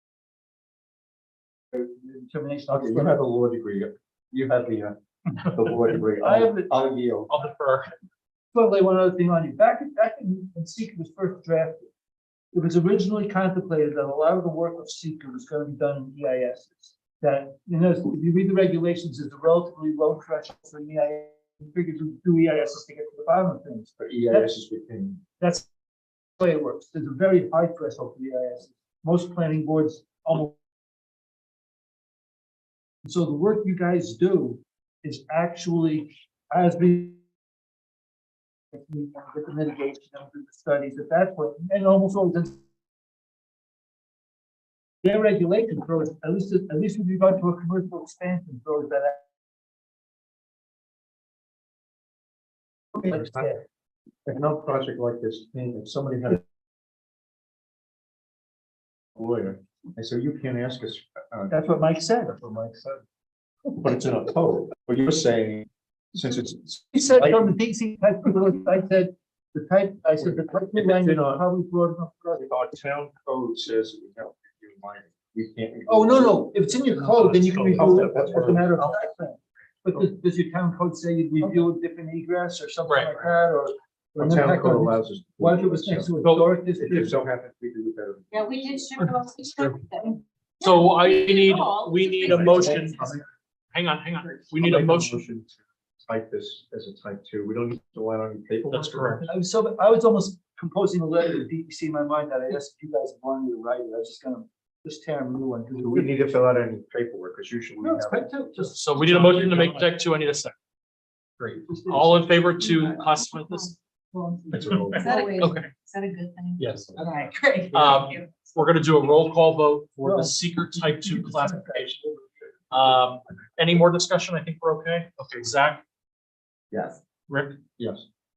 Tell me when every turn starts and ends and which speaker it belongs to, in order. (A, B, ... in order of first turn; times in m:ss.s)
0:01.7-0:03.2 A
0:02.7-0:07.3 B
0:06.2-0:06.7 A
0:07.3-0:07.9 C
0:08.5-0:11.9 A
0:12.5-0:24.5 A
0:24.0-0:25.2 B
0:25.4-0:25.7 A
0:26.4-0:30.6 A
0:33.0-0:37.2 A
0:38.7-0:42.6 A
0:45.0-0:49.3 A
0:53.0-0:53.5 B
0:53.0-0:53.6 A
0:54.3-0:56.4 B
0:59.2-1:01.5 B
1:01.5-1:03.0 A
1:03.7-1:07.5 B
1:06.9-1:12.5 A
1:10.2-1:11.4 B
1:12.4-1:16.6 B
1:15.9-1:27.1 A
1:17.0-1:18.6 C
1:17.7-1:18.7 B
1:22.9-1:23.2 C
1:24.2-1:28.4 B
1:28.3-1:33.2 D
1:29.0-1:29.8 C
1:30.6-1:33.1 C
1:32.3-1:33.0 B
1:33.7-1:35.2 C
1:34.6-1:35.5 B
1:36.1-1:39.2 B
1:38.7-1:39.3 C
1:39.2-1:46.2 A
1:45.8-1:48.3 B
1:47.8-1:49.9 A
1:48.7-1:50.5 C
1:51.4-1:53.8 C
1:51.7-1:52.3 A
1:52.6-1:58.5 D
1:54.5-1:55.1 B
1:54.9-1:55.7 C
1:56.6-1:57.0 C
1:57.7-2:02.0 C
2:00.0-2:02.2 A
2:02.7-2:05.8 C
2:06.7-2:07.0 B
2:07.3-2:07.6 C
2:07.8-2:08.0 B